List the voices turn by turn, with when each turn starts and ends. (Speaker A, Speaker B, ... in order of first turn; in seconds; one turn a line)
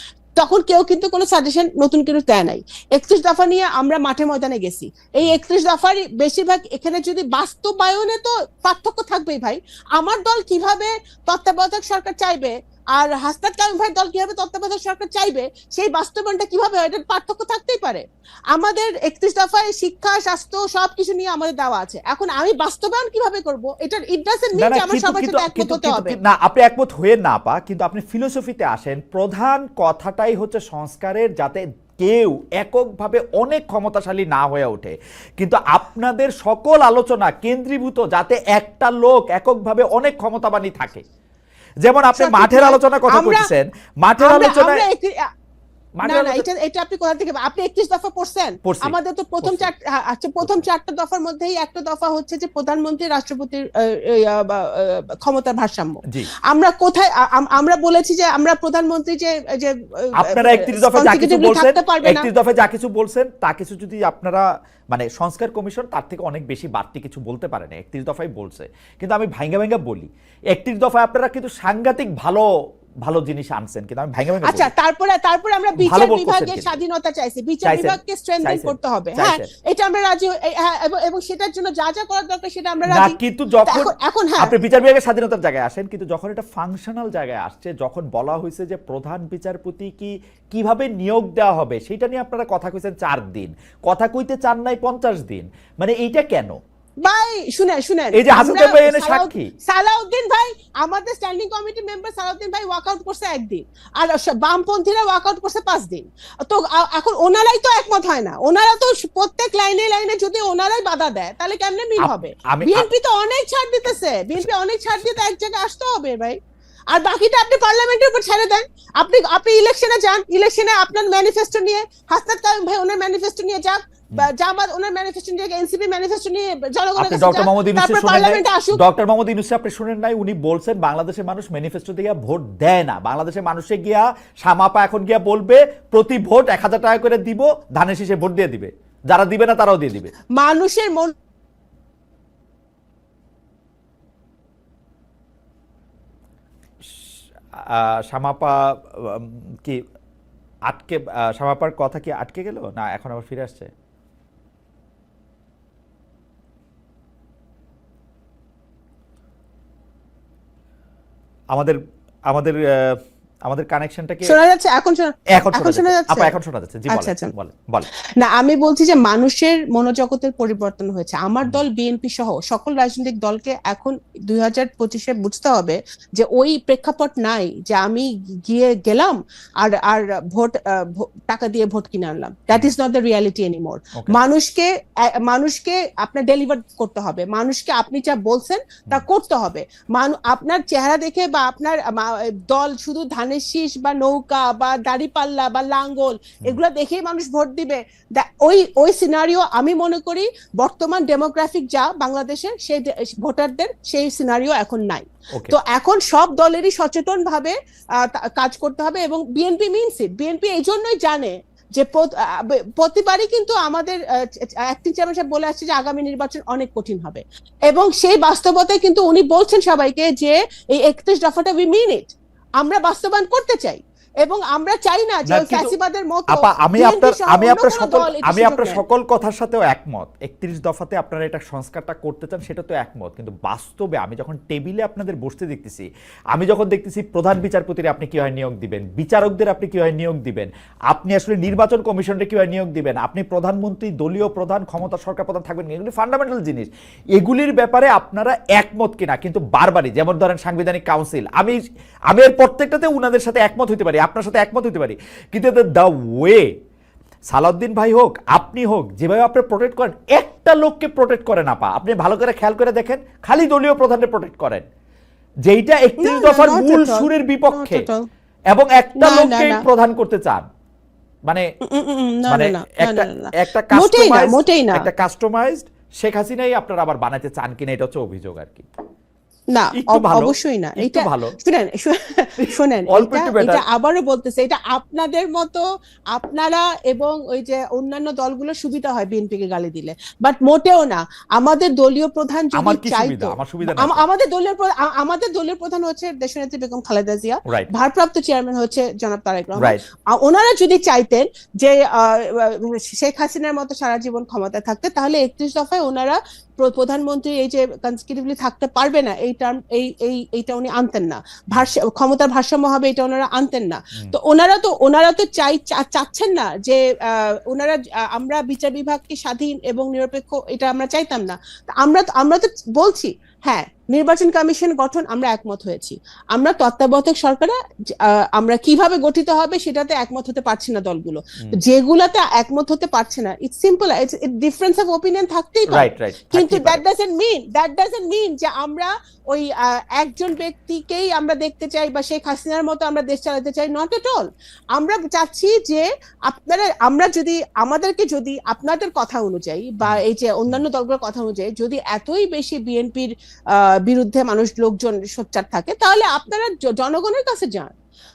Speaker A: 0.4-26.2
Speaker B: 24.6-41.0
Speaker B: 41.8-44.8
Speaker A: 42.2-43.5
Speaker A: 44.2-45.3
Speaker B: 46.0-46.5
Speaker A: 46.1-62.3
Speaker B: 48.6-49.7
Speaker B: 60.2-72.5
Speaker B: 73.0-74.7
Speaker A: 74.4-84.5
Speaker B: 75.8-76.8
Speaker B: 77.6-79.5
Speaker B: 82.9-96.6
Speaker A: 97.0-116.4
Speaker B: 98.1-99.5
Speaker B: 112.0-112.9
Speaker A: 116.9-128.8
Speaker B: 127.0-140.1
Speaker A: 140.3-141.1
Speaker B: 147.6-149.8
Speaker B: 150.7-153.7
Speaker B: 161.5-164.3
Speaker A: 164.2-166.3
Speaker B: 165.3-167.9
Speaker A: 166.9-167.3
Speaker A: 168.2-228.8
Speaker B: 225.3-225.7
Speaker B: 226.3-251.6
Speaker B: 252.1-256.5
Speaker B: 257.3-264.6
Speaker B: 265.5-267.9
Speaker A: 266.0-268.0
Speaker B: 268.5-270.5
Speaker A: 269.0-269.6
Speaker A: 271.6-274.9
Speaker B: 272.3-278.7
Speaker A: 279.5-357.7
Speaker B: 279.8-281.4
Speaker B: 282.4-283.6
Speaker B: 292.5-294.0
Speaker B: 297.5-297.7
Speaker B: 335.7-336.8
Speaker B: 349.8-350.6